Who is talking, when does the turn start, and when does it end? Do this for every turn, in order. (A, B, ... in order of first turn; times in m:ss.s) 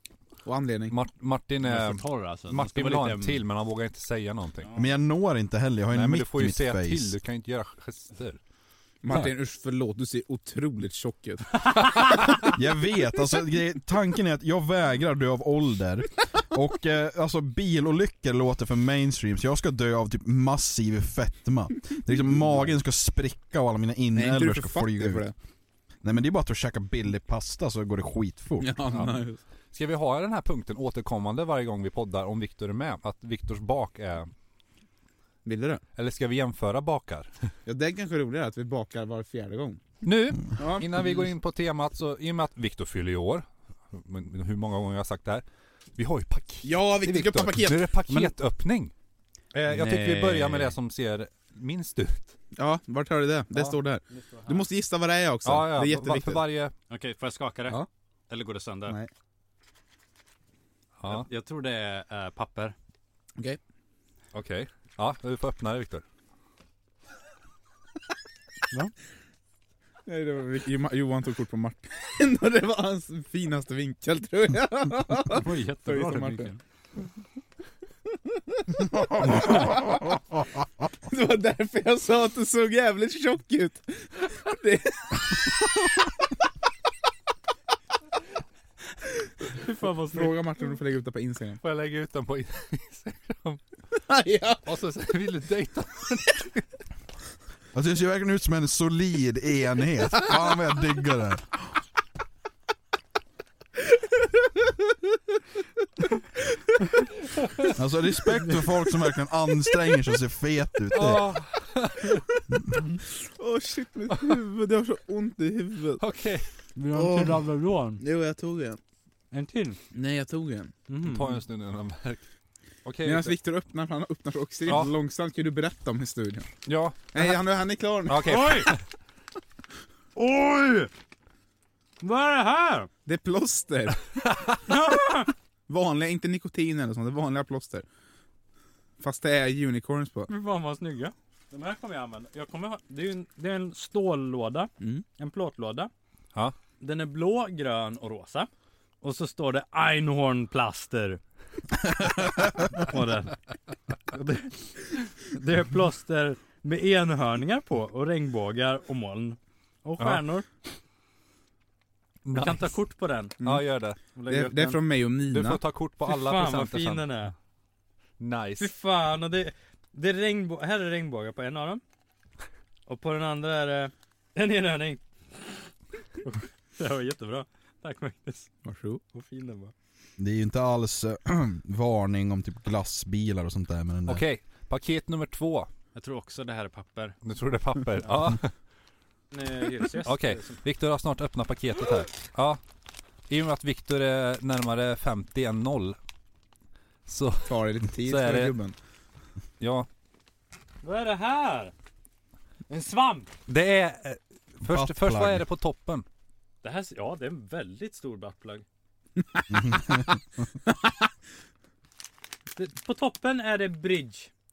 0:00.4-0:00.9 A
0:00.9-0:04.7 B
0:01.6-0:03.4 C
0:04.8-0:07.2 D
0:05.9-0:08.4 B
0:09.0-0:12.5 A
0:12.4-0:25.3 D
0:24.2-0:25.3 A
0:26.0-0:28.9 D
0:28.6-0:29.4 A
0:29.7-0:34.3 B
0:35.4-0:35.8 A
0:36.0-0:37.5 B
0:37.7-0:39.8 A
0:40.0-0:45.4 B
0:40.6-0:40.9 A
0:46.0-0:48.9 B
0:46.6-0:47.9 A
0:49.5-0:52.4 B
0:49.7-0:50.8 C
0:52.6-0:56.4 A
0:54.1-0:54.7 C
0:55.4-0:56.7 B
0:56.9-0:59.0 C
1:01.0-1:01.3 B
1:01.1-1:02.8 C
1:04.3-1:06.0 B
1:10.1-1:16.5 A
1:15.3-1:16.6 C
1:18.1-1:20.2 A
1:19.2-1:19.6 D
1:21.0-1:25.9 A
1:29.5-1:30.4 C
1:30.0-1:31.6 A
1:31.6-1:33.6 B
1:34.0-1:34.6 A
1:34.6-1:36.6 B
1:37.7-1:41.8 D
1:44.0-1:44.3 A
1:47.7-1:51.4 D
1:50.9-1:52.2 B
1:53.1-1:56.0 A
1:54.1-1:54.4 B
1:56.0-1:56.5 B
1:56.8-1:58.0 C
1:56.9-1:57.4 A
1:58.0-1:58.8 A
1:59.3-1:59.8 C
1:59.9-2:00.7 A
2:00.9-2:01.4 C
2:01.0-2:02.2 B
2:02.8-2:03.4 B
2:03.0-2:06.5 A
2:06.6-2:07.3 B
2:07.1-2:08.6 A
2:08.1-2:08.8 B
2:08.2-2:08.7 C
2:10.2-2:10.9 C
2:12.0-2:12.9 C
2:13.1-2:14.7 A
2:14.6-2:15.3 C
2:15.7-2:17.8 A
2:19.0-2:20.3 A
2:20.3-2:25.9 C
2:26.8-2:28.5 C
2:29.0-2:31.2 C
2:32.0-2:33.5 C
2:34.1-2:40.4 C
2:42.2-2:42.7 B
2:42.3-2:43.4 C
2:43.4-2:44.0 B
2:44.2-2:44.8 C
2:44.3-2:45.6 A
2:45.3-2:47.1 B
2:46.0-2:47.3 C
2:48.2-2:48.7 B
2:48.6-2:51.8 C
2:52.9-2:55.6 C
2:56.2-2:58.5 C
2:58.6-2:59.0 A
2:59.1-2:59.7 C
3:00.2-3:04.2 D
3:04.1-3:05.7 B
3:06.0-3:07.2 C
3:07.2-3:08.5 B
3:09.3-3:10.6 C
3:10.0-3:12.6 B
3:13.3-3:16.0 B
3:17.1-3:18.6 B
3:17.5-3:18.8 A
3:19.6-3:19.9 B
3:20.8-3:21.7 C
3:22.7-3:23.3 C
3:23.5-3:26.1 B
3:24.7-3:25.4 D
3:26.6-3:28.6 C
3:29.3-3:29.8 A
3:29.5-3:30.2 D
3:32.6-3:34.3 C